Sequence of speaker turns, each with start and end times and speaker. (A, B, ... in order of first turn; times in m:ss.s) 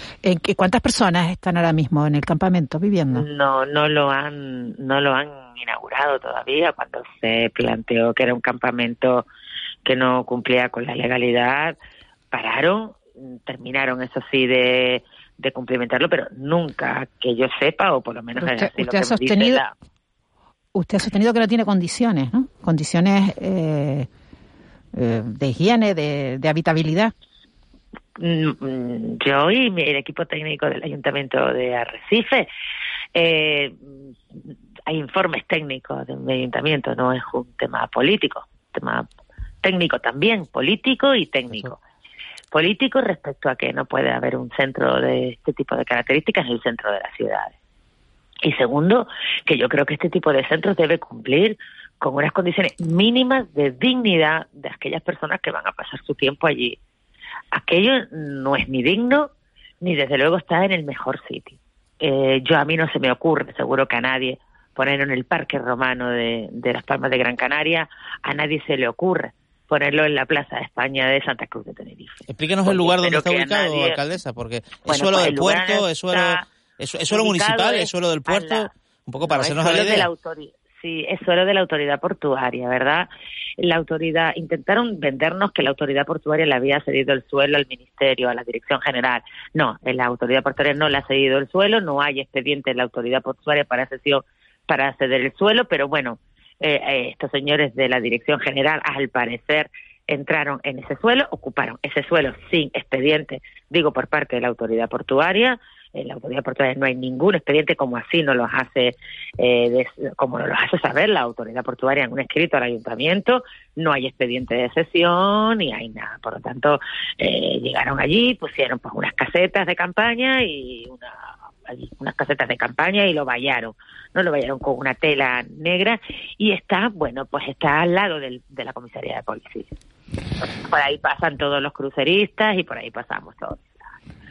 0:00.2-0:03.2 A
0:03.1-0:09.2 B
0:09.8-0:11.8 B
0:12.3-0:19.7 B
0:18.4-0:19.6 A
0:20.7-0:24.1 A
0:24.9-0:27.1 A
0:28.2-0:32.5 B
0:33.1-0:33.8 B
0:34.9-0:39.1 B
0:39.6-0:41.8 B
0:42.5-0:47.5 B
0:48.4-0:56.8 B
0:57.5-0:59.3 B
0:59.8-1:14.0 B
1:12.3-1:20.1 C
1:14.8-1:16.4 B
1:17.1-1:18.7 B
1:19.2-1:23.1 B
1:23.6-2:01.1 B
2:01.7-2:09.7 B
2:10.7-2:13.8 B